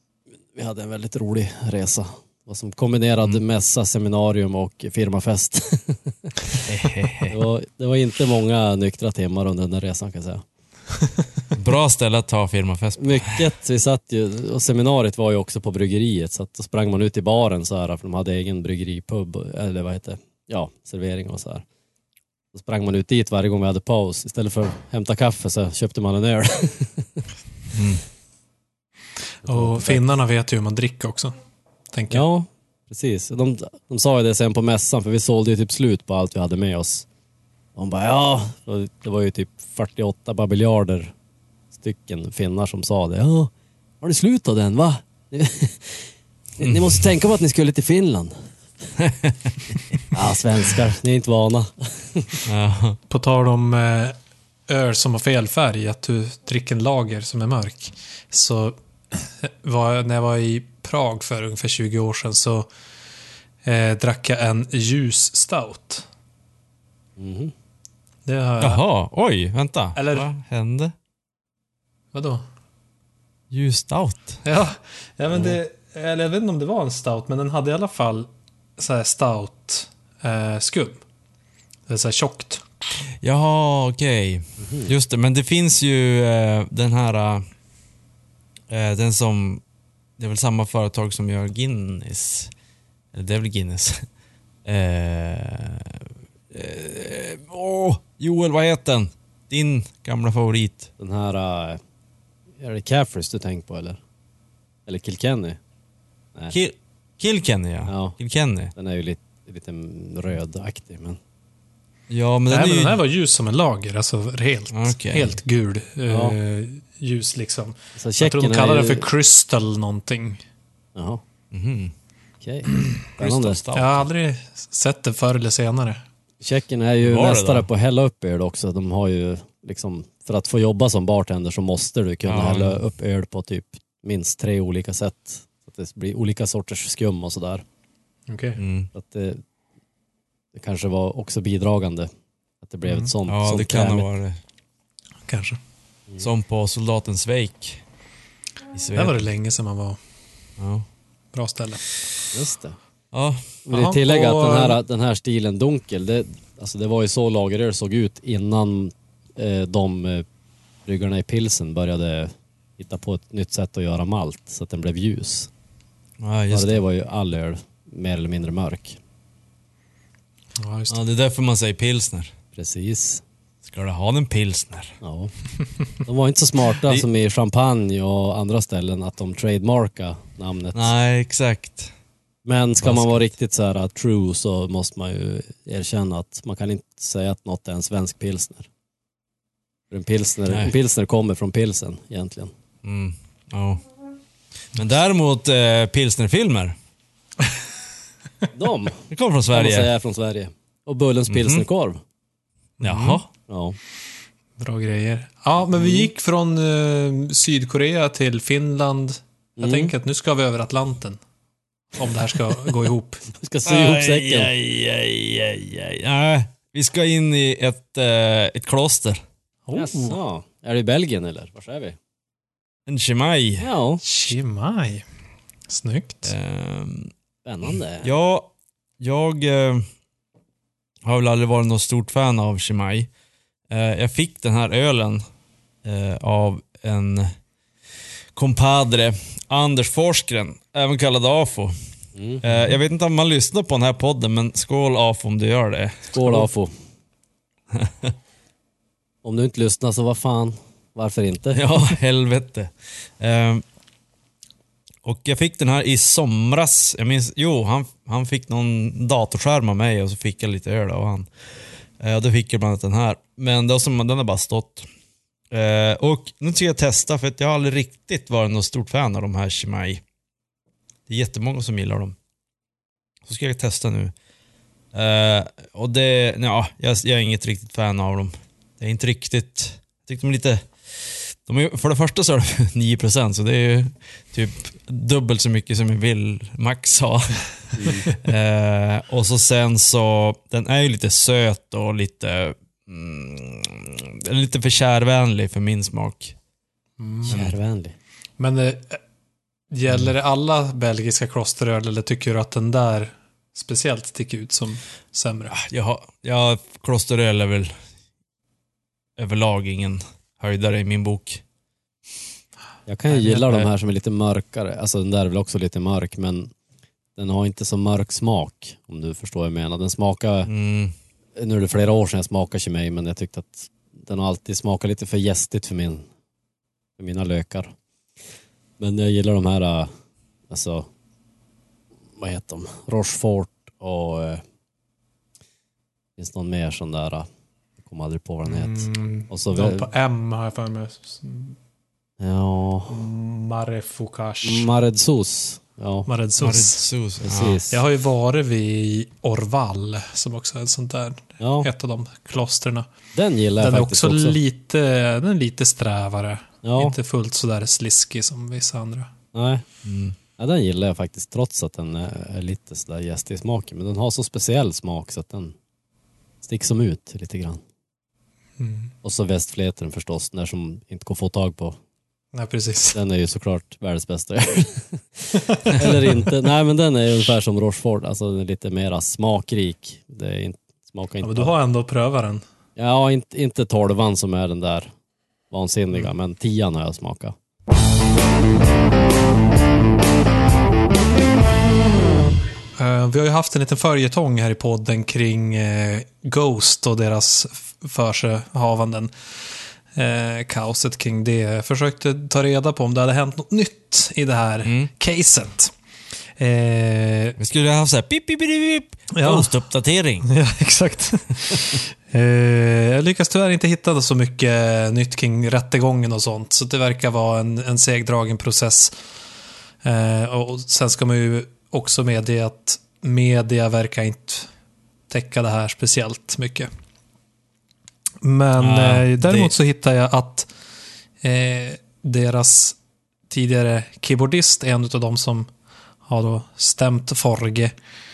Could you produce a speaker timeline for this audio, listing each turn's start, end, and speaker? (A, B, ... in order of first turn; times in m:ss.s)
0:00.5-0:06.6 A
0:06.6-0:07.4 B
0:07.3-0:10.4 A
0:11.5-0:13.4 B
0:13.0-0:21.6 A
0:22.5-0:27.2 A
0:27.7-0:28.0 B
0:29.4-0:31.3 C
0:29.4-0:30.0 A
0:31.9-0:32.2 C
0:32.1-0:37.0 A
0:37.8-0:41.1 A
0:41.8-0:48.5 A
0:46.6-0:47.0 B
0:49.0-0:49.6 B
0:50.1-0:52.4 A
0:52.4-0:53.0 B
0:53.1-0:54.2 C
0:54.7-1:02.7 C
1:03.6-1:06.1 C
1:07.2-1:07.5 A
1:08.2-1:08.8 C
1:08.6-1:10.9 B
1:10.0-1:10.3 C
1:12.1-1:12.4 C
1:13.5-1:14.4 B
1:14.4-1:21.0 C
1:21.9-1:22.6 C
1:23.2-1:27.4 B
1:24.6-1:24.9 A
1:28.7-1:29.6 B
1:30.2-1:32.5 B
1:33.1-1:34.0 B
1:34.6-1:40.9 B
1:41.0-1:41.8 A
1:42.6-1:44.0 A
1:44.8-1:45.6 A
1:46.5-1:48.7 B
1:47.9-1:48.2 A
1:48.7-1:51.2 A
1:52.1-1:53.0 B
1:52.5-2:00.4 C
1:54.7-1:55.3 B
1:56.1-1:56.4 A
1:58.0-1:59.1 A
2:01.0-2:01.2 A
2:01.5-2:01.9 B
2:02.4-2:03.6 A
2:03.2-2:04.1 B
2:03.7-2:06.0 C
2:06.4-2:17.6 A
2:07.0-2:07.7 B
2:12.3-2:12.8 B
2:18.3-2:18.6 C
2:18.6-2:18.9 B
2:18.9-2:19.4 A
2:20.5-2:22.1 A
2:22.6-2:24.0 A
2:22.8-2:23.1 C
2:23.3-2:24.4 B
2:25.2-2:25.6 C
2:26.2-2:27.8 B
2:28.7-2:29.2 B
2:28.9-2:30.0 C
2:30.6-2:30.8 B
2:31.3-2:31.9 C
2:32.3-2:32.8 A
2:33.1-2:33.6 B
2:33.6-2:40.2 A
2:33.7-2:34.8 C
2:40.8-2:45.5 A
2:46.2-2:46.8 B
2:46.5-2:49.0 A
2:50.6-2:51.0 C
2:50.9-2:52.3 B
2:52.5-2:53.2 A
2:53.6-2:55.0 B
2:55.0-2:55.3 A
2:56.0-3:00.9 A
3:00.7-3:01.9 B
3:02.4-3:08.7 A
3:02.8-3:03.2 B
3:09.9-3:12.5 A
3:10.5-3:10.7 B
3:12.8-3:13.8 B
3:14.7-3:16.8 B
3:18.5-3:22.0 A
3:19.1-3:19.9 B
3:21.3-3:21.6 B
3:22.8-3:23.2 C
3:22.8-3:23.3 B
3:23.5-3:23.8 A
3:24.6-3:31.2 C
3:29.6-3:29.9 A
3:31.9-3:33.2 C
3:33.3-3:34.5 A
3:33.6-3:39.2 B
3:39.6-3:40.2 C
3:39.7-3:42.0 A
3:42.9-3:43.7 B
3:43.6-3:44.0 A
3:44.0-3:45.0 C
3:45.7-3:46.3 C
3:46.2-3:47.1 B
3:47.4-3:48.1 A
3:48.0-3:48.5 B
3:49.0-3:49.8 B
3:51.0-3:53.1 B
3:53.7-3:55.2 B
3:55.8-3:57.3 B
3:58.3-4:01.8 B
4:02.1-4:02.6 A
4:02.4-4:06.4 B
4:06.1-4:06.7 A
4:07.7-4:08.1 B
4:09.2-4:11.7 A
4:11.5-4:13.6 B
4:15.0-4:21.3 B
4:22.0-4:24.9 B
4:25.5-4:30.0 B
4:31.1-4:32.2 B
4:33.2-4:34.1 B
4:34.9-4:56.3 B
4:47.7-4:48.1 A
4:57.0-4:57.4 C
4:57.3-4:58.0 A
4:57.3-4:57.6 B
4:58.4-4:59.0 C
4:59.7-5:05.5 C
5:05.5-5:07.7 B
5:09.2-5:11.4 B
5:12.8-5:16.5 A
5:13.3-5:13.7 B
5:17.2-5:20.5 A
5:20.5-5:20.9 B
5:21.4-5:26.1 A
5:27.0-5:27.7 A
5:28.8-5:29.9 A
5:30.5-5:30.9 A
5:32.2-5:34.4 A
5:36.2-5:37.3 A
5:37.8-5:39.9 A
5:38.4-5:41.6 C
5:42.2-5:43.0 A
5:42.9-5:44.7 C
5:44.4-5:46.1 A
5:46.1-5:46.8 C
5:46.4-5:47.6 B
5:47.2-5:47.8 A
5:47.7-5:52.9 C
5:51.4-5:51.7 A
5:53.1-5:54.4 A
5:53.6-5:59.1 C
5:56.6-5:57.0 A
5:59.3-5:59.6 A
5:59.8-6:00.2 B
6:00.4-6:05.5 A
6:06.4-6:07.6 A
6:08.6-6:08.9 C
6:09.0-6:11.8 A
6:12.3-6:13.0 C
6:12.9-6:21.5 A
6:15.3-6:16.1 C
6:21.2-6:22.4 C
6:22.8-6:24.9 A
6:25.5-6:27.3 A
6:32.8-6:45.7 C
6:44.6-6:44.9 B
6:46.4-6:47.4 C
6:47.4-6:50.3 B
6:49.1-6:49.5 C
6:50.2-6:59.0 C
6:59.8-7:04.5 C
7:05.1-7:06.7 C
7:08.2-7:10.5 C
7:08.6-7:09.5 B
7:11.2-7:12.8 C
7:13.3-7:15.5 C
7:16.0-7:17.8 C